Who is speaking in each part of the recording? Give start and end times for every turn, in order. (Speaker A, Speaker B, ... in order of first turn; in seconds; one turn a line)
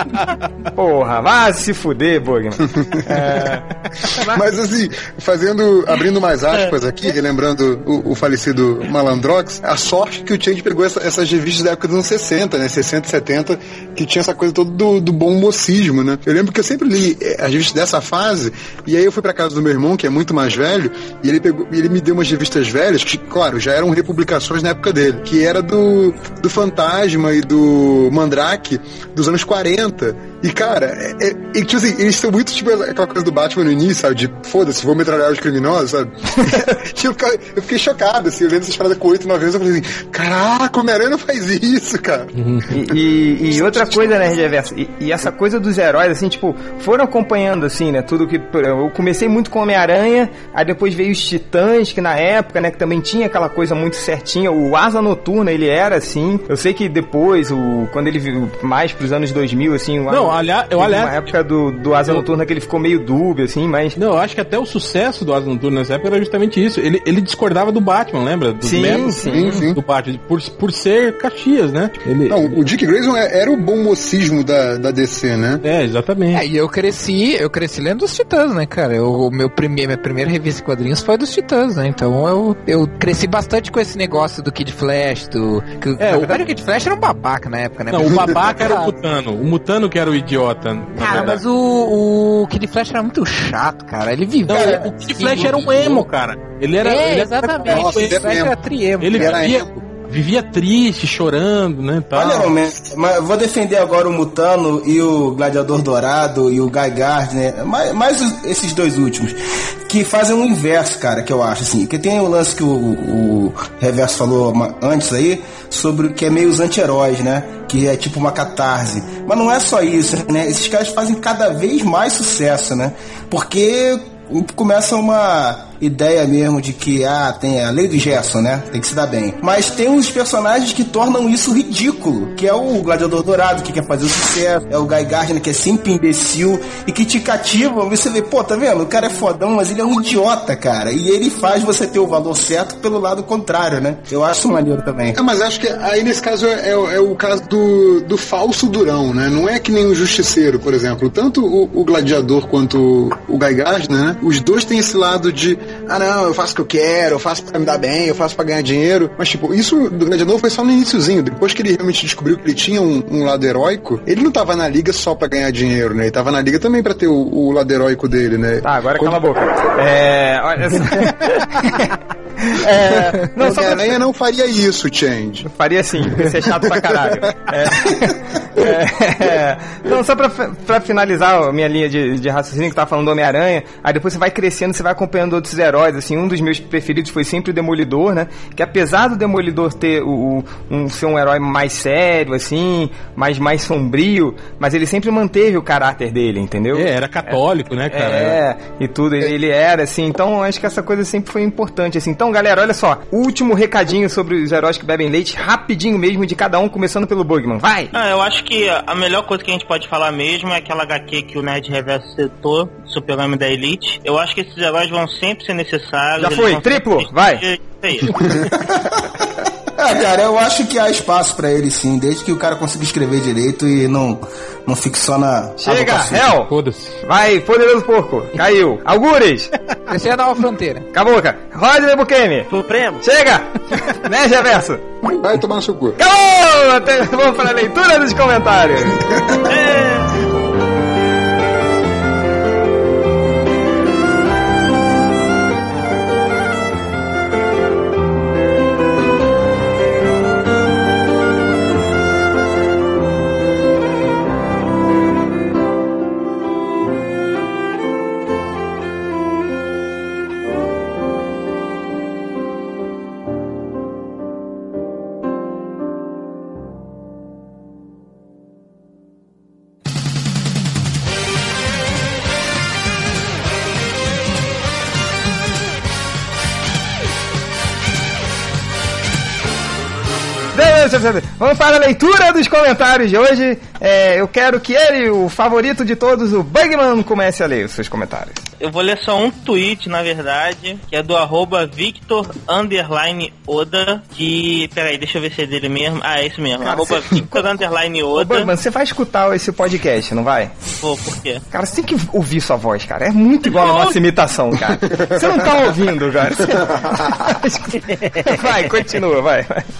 Speaker A: 0.8-4.4
Speaker B: 2.8-3.2
Speaker B: 4.3-42.3
Speaker C: 42.4-42.7
Speaker A: 42.7-64.0
Speaker B: 43.5-44.5
Speaker C: 60.1-61.3
Speaker C: 64.0-72.6
Speaker A: 68.6-69.7
Speaker B: 69.2-69.8
Speaker B: 72.3-75.6
Speaker C: 75.6-76.4
Speaker D: 76.3-88.9
Speaker C: 86.0-86.5
Speaker C: 87.9-91.4
Speaker D: 91.0-96.0
Speaker C: 94.5-98.2
Speaker E: 94.5-95.4
Speaker D: 96.8-99.5
Speaker B: 97.6-98.5
Speaker C: 99.0-102.5
Speaker B: 99.1-99.7
Speaker E: 102.1-145.2
Speaker B: 145.1-169.2
Speaker A: 168.6-173.9
Speaker B: 173.3-175.5
Speaker A: 175.4-197.4
Speaker B: 176.5-177.8
Speaker C: 196.7-198.4
Speaker A: 197.9-207.9
Speaker F: 207.9-218.1
Speaker A: 216.2-217.4
Speaker E: 218.6-226.3
Speaker A: 225.6-226.5
Speaker C: 226.4-227.0
Speaker A: 227.0-229.5
Speaker D: 229.9-230.8
Speaker A: 230.9-232.5
Speaker G: 232.5-233.0
Speaker A: 233.0-234.8
Speaker B: 235.0-236.0
Speaker A: 236.0-239.2
Speaker G: 239.4-240.2
Speaker A: 280.5-288.4
Speaker F: 288.6-298.5
Speaker A: 296.6-297.4
Speaker A: 298.1-300.5
Speaker F: 300.8-301.4
Speaker A: 301.5-309.7
Speaker F: 303.4-304.0
Speaker B: 304.9-305.4
Speaker B: 306.4-307.1
Speaker G: 307.8-308.7